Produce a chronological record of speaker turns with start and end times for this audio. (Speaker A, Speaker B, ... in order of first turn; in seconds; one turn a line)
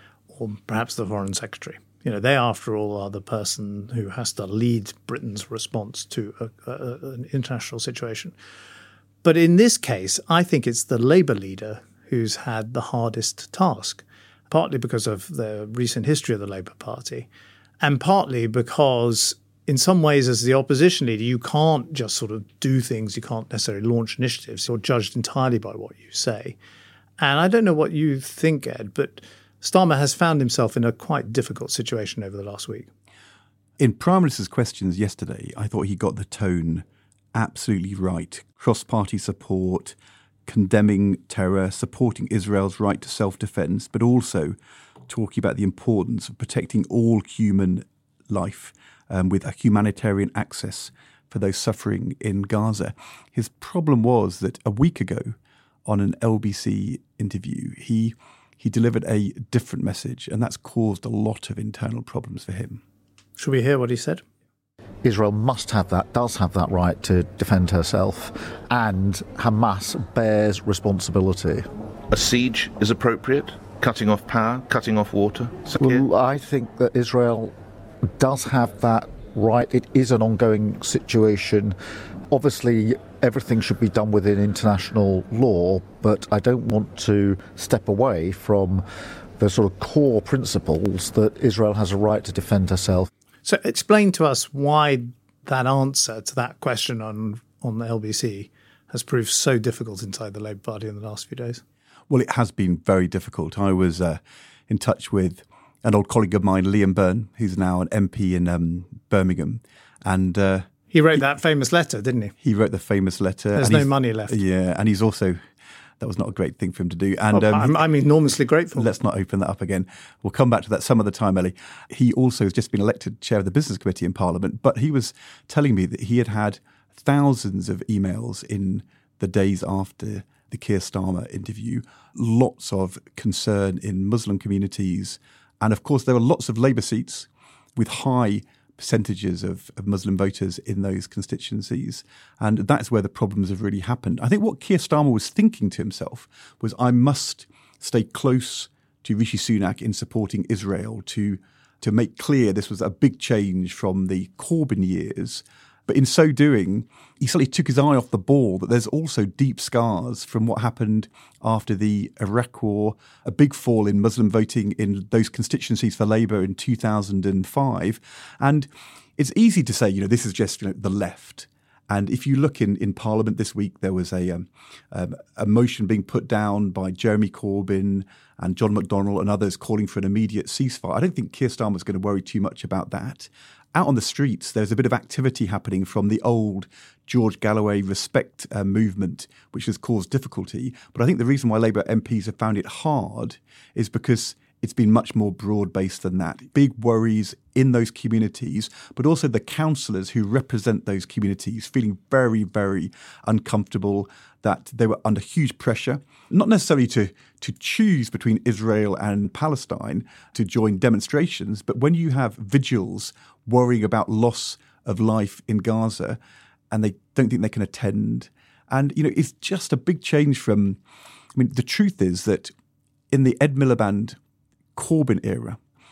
Speaker A: 0.3-8.3
Speaker A: 9.2-17.3
Speaker A: 17.8-26.6
Speaker A: 27.2-32.9
Speaker B: 33.8-44.6
Speaker B: 45.1-62.8
Speaker A: 63.4-64.2
Speaker C: 65.0-71.7
Speaker D: 72.1-76.0
Speaker C: 75.8-77.5
Speaker C: 78.0-81.8
Speaker C: 82.3-88.8
Speaker C: 89.4-93.1
Speaker A: 93.5-101.6
Speaker B: 102.1-110.7
Speaker A: 110.9-112.3
Speaker B: 112.4-115.4
Speaker A: 113.5-114.4
Speaker B: 116.0-117.8
Speaker A: 117.3-118.9
Speaker B: 118.8-216.2
Speaker B: 216.7-220.8
Speaker B: 221.3-222.5
Speaker B: 223.1-224.2
Speaker B: 224.8-225.6